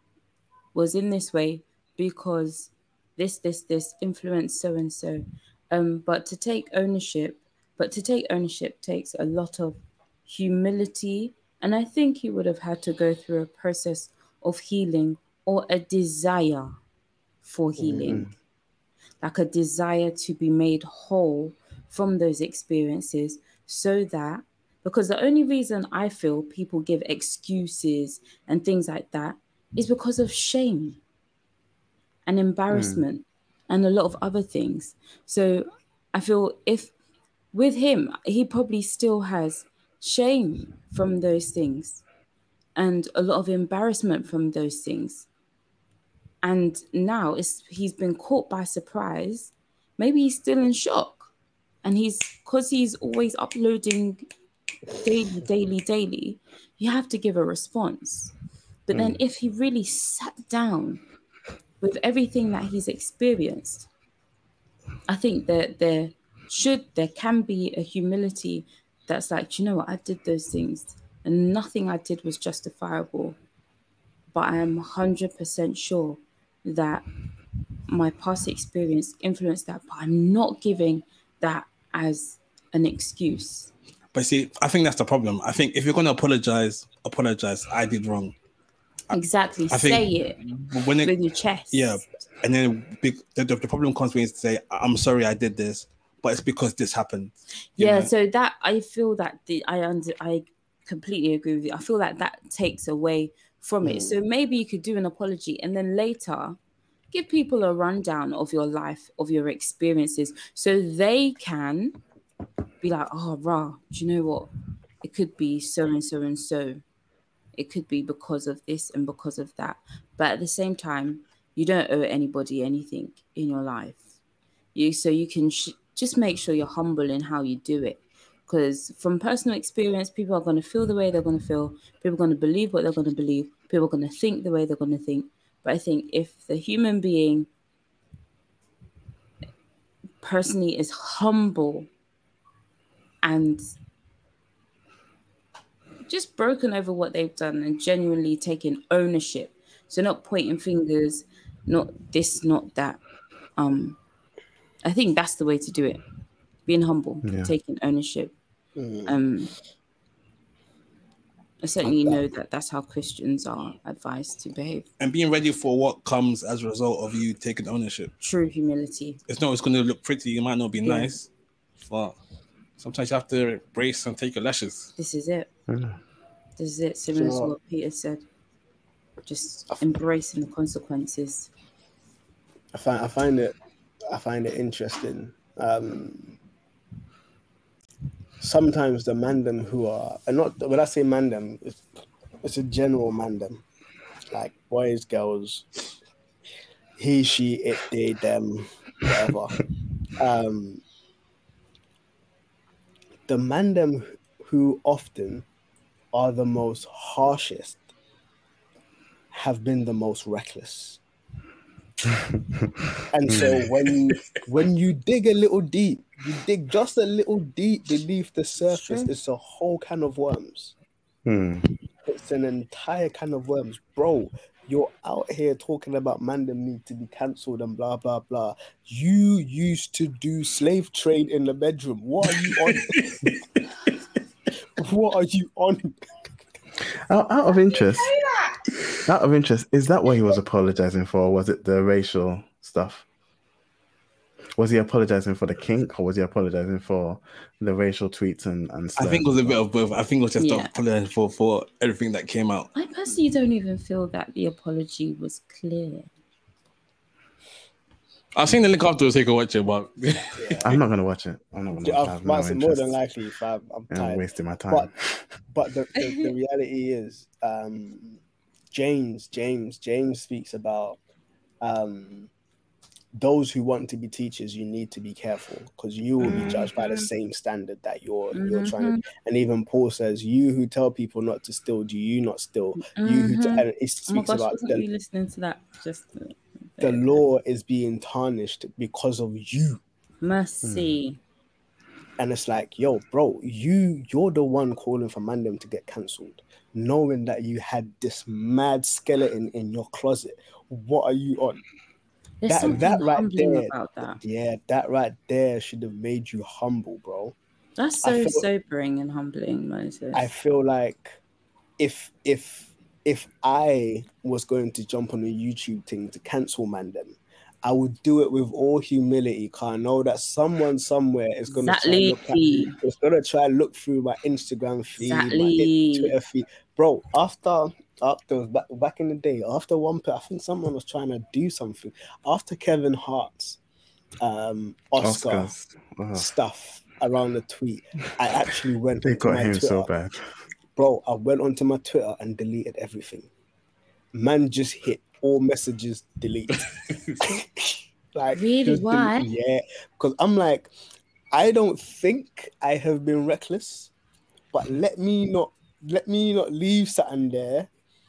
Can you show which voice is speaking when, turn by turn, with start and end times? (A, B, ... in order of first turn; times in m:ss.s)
0:00.7-0:16.8 A
0:17.4-0:18.3 A
0:17.8-0:18.3 B
0:19.2-0:31.0 A
0:32.2-0:36.9 A
0:32.7-0:33.0 C
0:37.5-0:42.0 A
0:42.8-0:45.2 A
0:46.4-0:51.3 A
0:51.8-0:54.3 A
0:54.9-0:58.3 A
0:58.9-1:01.0 A
0:58.9-0:59.2 C
1:01.8-1:03.9 A
1:05.1-1:13.4 A
1:14.3-1:17.0 A
1:17.9-1:23.7 A
1:24.1-1:28.3 D
1:29.1-1:30.4 A
1:29.7-1:31.1 D
1:31.0-1:32.0 A
1:31.7-1:38.1 D
1:37.8-1:46.6 A
1:43.8-1:44.2 B
1:47.1-1:52.0 A
1:52.8-1:54.5 A
1:55.0-1:56.8 A
1:57.6-2:04.0 A
2:04.7-2:17.5 A
2:20.2-2:21.9 A
2:23.2-2:23.6 A
2:26.1-2:33.0 A
2:33.6-2:34.0 A
2:34.8-2:36.0 A
2:36.6-2:38.3 A
2:37.2-2:37.5 C
2:38.8-2:39.2 B
2:39.0-2:39.5 A
2:41.6-2:44.8 A
2:41.8-2:42.2 B
2:45.0-2:48.1 D
2:48.2-2:49.2 A
2:49.3-2:51.3 D
2:50.8-2:51.1 A
2:51.8-2:52.2 D
2:52.8-2:54.9 D
2:55.0-2:55.5 A
2:55.7-2:56.0 C
2:56.6-2:58.2 A
2:57.2-2:57.5 B
2:59.2-3:01.5 A
3:02.7-3:03.6 B
3:04.1-3:06.4 B
3:08.4-3:11.9 B
3:12.4-3:13.6 B
3:14.3-3:15.8 B
3:17.0-3:19.6 B
3:20.2-3:20.8 B
3:23.3-3:25.4 B
3:26.1-3:27.8 B
3:29.3-3:31.0 B
3:32.1-3:33.6 C
3:33.1-3:40.7 B
3:38.6-3:39.1 A
3:41.2-3:41.6 C
3:42.0-3:53.4 B
3:52.3-3:53.4 D
3:54.7-3:56.4 B
3:56.8-3:58.1 C
3:57.7-3:58.6 A
3:59.0-4:03.0 C
4:04.6-4:09.6 C
4:09.0-4:12.7 D
4:10.4-4:10.7 A
4:12.7-4:16.1 A
4:18.3-4:20.6 D
4:20.4-4:20.8 B
4:20.6-4:23.0 C
4:21.8-4:24.9 B
4:23.9-4:25.3 C
4:25.5-4:28.2 B
4:28.7-4:31.0 B
4:31.6-4:32.3 B
4:33.1-4:44.8 B
4:36.2-4:37.1 A
4:36.2-4:36.6 C
4:38.3-4:39.0 A
4:42.8-4:47.2 A
4:46.8-4:49.8 B
4:50.2-4:51.2 A
4:50.6-4:50.9 C
4:52.2-5:01.6 B
5:02.4-5:04.2 A
5:02.5-5:07.4 B
5:07.8-5:10.3 A
5:08.0-5:08.4 B
5:10.1-5:11.2 B
5:11.8-5:33.6 B
5:21.5-5:22.8 A
5:25.0-5:26.1 A
5:34.2-5:35.5 B
5:35.0-5:36.3 C
5:36.1-5:39.9 B
5:39.0-5:40.2 C
5:40.8-5:43.3 B
5:44.1-5:50.7 B
5:48.3-5:49.3 A
5:51.3-5:53.9 B
5:54.5-5:57.7 B